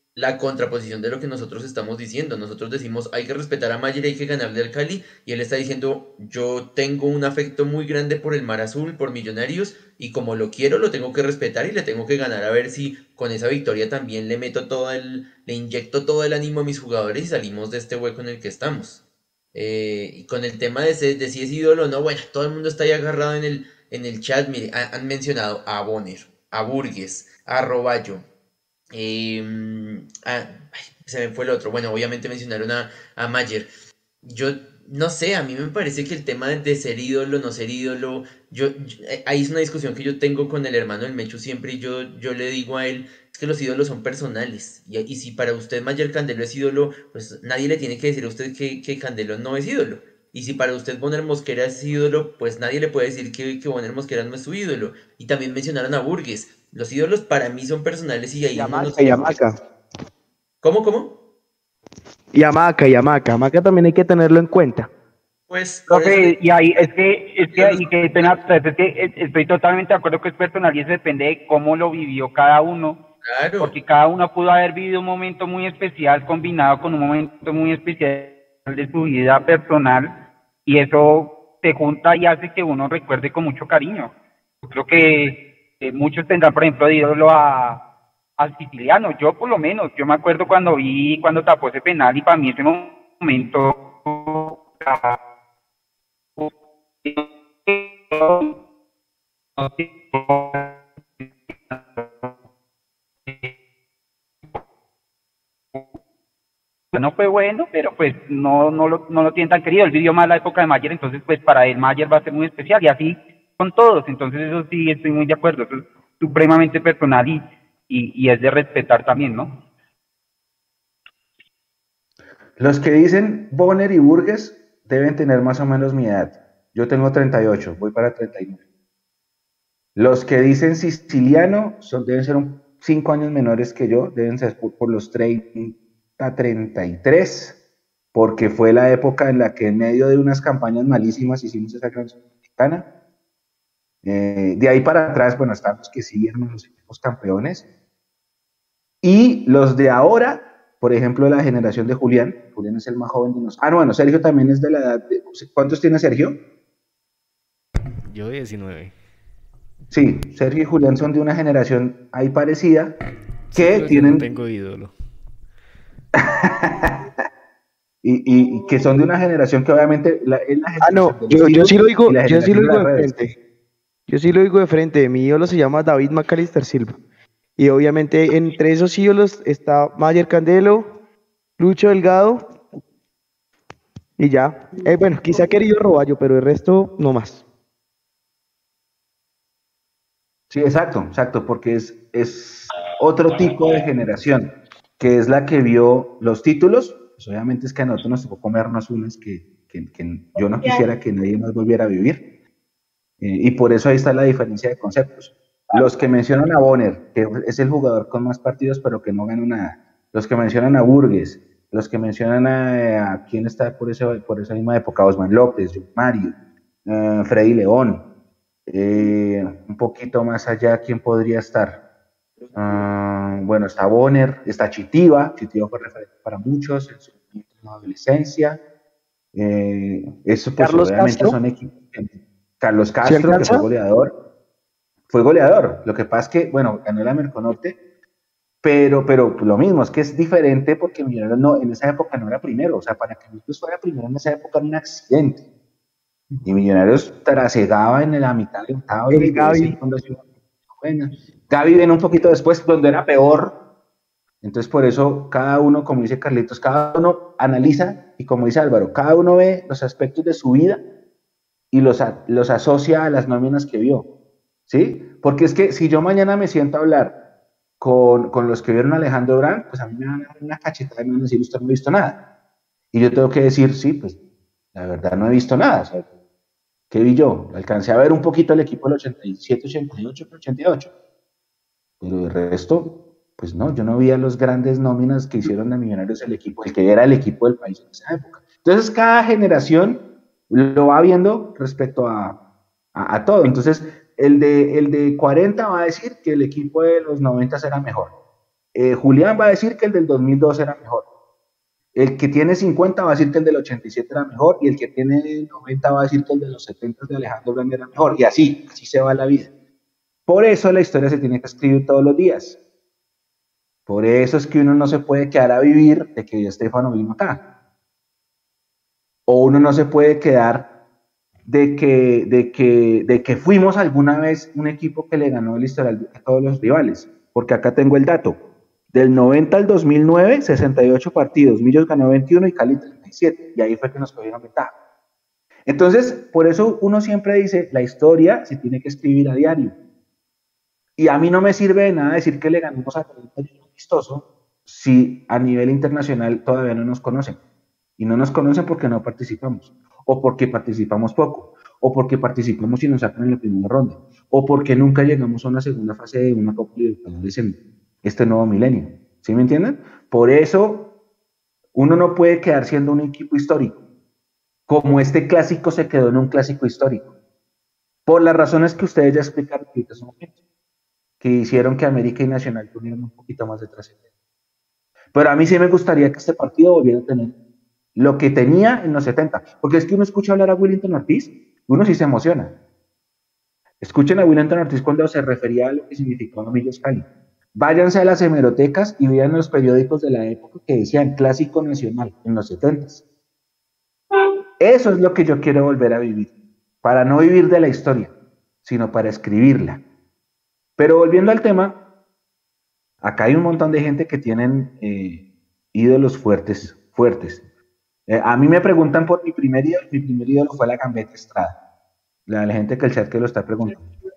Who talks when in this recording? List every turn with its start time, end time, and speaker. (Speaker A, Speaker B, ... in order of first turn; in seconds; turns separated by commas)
Speaker A: 0.1-19.0, Speaker A: 19.5-28.2, Speaker A: 28.9-33.7, Speaker A: 34.2-59.4, Speaker B: 58.5-59.6, Speaker A: 60.6-61.2, Speaker B: 62.3-64.9, Speaker A: 65.5-66.9, Speaker C: 65.9-73.0, Speaker A: 67.4-68.4, Speaker A: 73.2-73.7, Speaker C: 73.6-80.1, Speaker C: 80.7-84.1, Speaker C: 84.6-87.8, Speaker C: 88.4-95.2, Speaker C: 97.0-98.5, Speaker C: 99.6-102.3, Speaker C: 103.3-103.5, Speaker C: 106.9-119.6, Speaker D: 122.6-128.6, Speaker D: 129.9-137.6, Speaker D: 138.1-142.9, Speaker D: 144.0-147.7, Speaker D: 149.0-156.4, Speaker E: 158.1-158.9, Speaker D: 159.9-162.9, Speaker E: 163.5-164.9, Speaker D: 163.6-164.3, Speaker D: 166.2-167.1, Speaker D: 168.0-173.2, Speaker B: 170.8-173.3, Speaker B: 174.1-177.0, Speaker B: 177.6-180.9, Speaker B: 181.6-182.4, Speaker B: 184.2-187.4, Speaker D: 190.5-202.2, Speaker D: 203.2-218.1, Speaker D: 218.7-221.8, Speaker D: 222.5-228.6, Speaker D: 229.3-234.1, Speaker B: 230.6-231.4, Speaker B: 233.0-233.6, Speaker D: 235.1-237.8, Speaker D: 238.6-245.4, Speaker D: 246.4-253.6, Speaker B: 249.1-249.8, Speaker D: 254.4-260.8, Speaker D: 261.7-264.1, Speaker D: 264.7-267.1, Speaker D: 267.8-272.2, Speaker D: 272.9-274.2, Speaker D: 274.7-276.1, Speaker D: 276.9-280.9, Speaker D: 282.0-292.4, Speaker D: 292.9-298.1, Speaker D: 298.7-301.1, Speaker D: 301.9-309.5, Speaker D: 310.3-312.6, Speaker D: 313.9-317.4, Speaker D: 319.3-320.7, Speaker D: 321.5-328.4, Speaker D: 328.9-334.7, Speaker D: 335.7-339.8, Speaker D: 341.0-347.4, Speaker D: 348.0-360.9, Speaker D: 361.7-363.8, Speaker D: 364.7-367.1, Speaker D: 368.1-370.3, Speaker D: 371.2-374.0, Speaker D: 375.1-377.3, Speaker D: 377.9-382.6, Speaker D: 383.8-393.0, Speaker D: 394.6-396.3, Speaker D: 396.8-398.1, Speaker D: 398.6-399.8, Speaker D: 400.8-401.8, Speaker D: 403.0-407.4, Speaker D: 408.1-411.6, Speaker D: 412.3-413.9